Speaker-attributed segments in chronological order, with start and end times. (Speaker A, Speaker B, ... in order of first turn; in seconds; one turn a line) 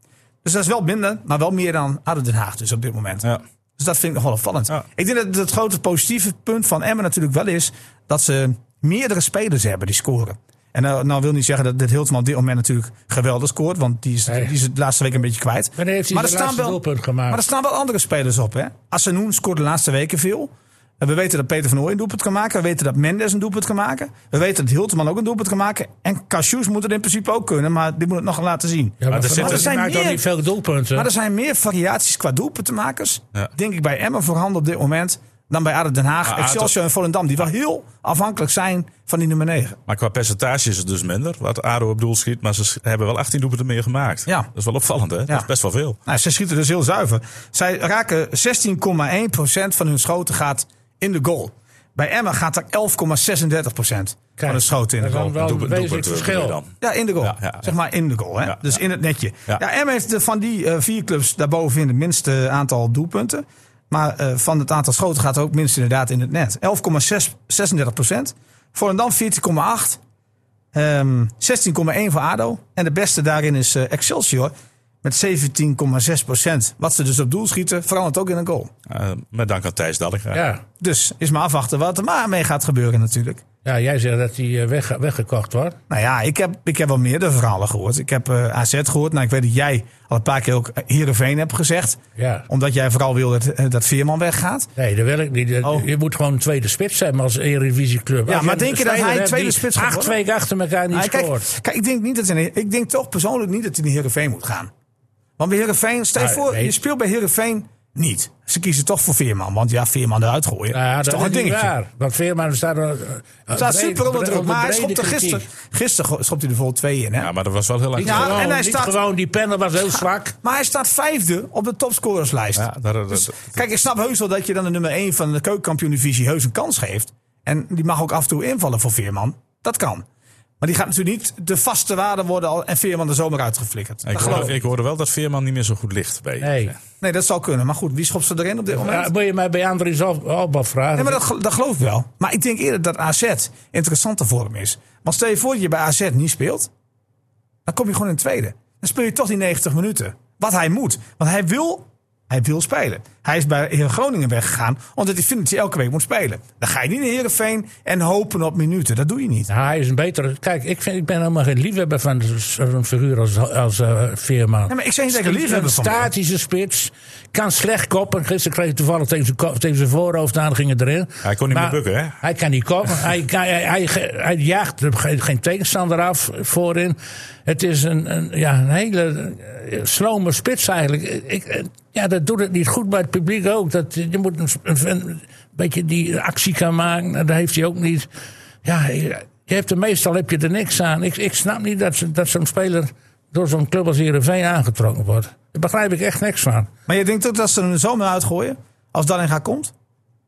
Speaker A: 0.4-30.2
Speaker B: 14.3-14.5
Speaker B: 15.8-17.4
Speaker B: 29.0-31.1
Speaker C: 29.1-29.7
Speaker A: 30.9-39.8
Speaker C: 36.3-36.7
Speaker C: 39.9-46.0
Speaker A: 46.1-55.4
Speaker B: 54.4-56.6
Speaker C: 55.3-57.7
Speaker A: 56.8-70.0
Speaker C: 58.5-58.8
Speaker A: 70.7-78.7
Speaker C: 78.9-80.4
Speaker B: 80.3-80.6
Speaker A: 80.8-83.4
Speaker B: 83.7-85.8
Speaker A: 85.9-94.7
Speaker B: 92.2-92.5
Speaker B: 94.8-101.5
Speaker A: 95.6-95.9
Speaker A: 98.3-100.2
Speaker A: 100.9-104.7
Speaker A: 105.4-111.7
Speaker B: 106.2-106.7
Speaker B: 110.7-115.5
Speaker A: 113.5-117.3
Speaker C: 117.2-118.4
Speaker B: 118.0-120.4
Speaker A: 118.0-119.0
Speaker A: 120.4-130.1
Speaker C: 122.6-123.6
Speaker A: 130.6-134.5
Speaker C: 134.1-136.8
Speaker B: 134.2-134.5
Speaker B: 136.4-136.7
Speaker A: 137.0-139.1
Speaker B: 138.7-141.2
Speaker A: 141.0-146.7
Speaker A: 147.7-159.5
Speaker B: 159.5-188.1
Speaker A: 164.7-166.1
Speaker C: 171.2-172.2
Speaker B: 188.6-196.7
Speaker A: 196.9-199.7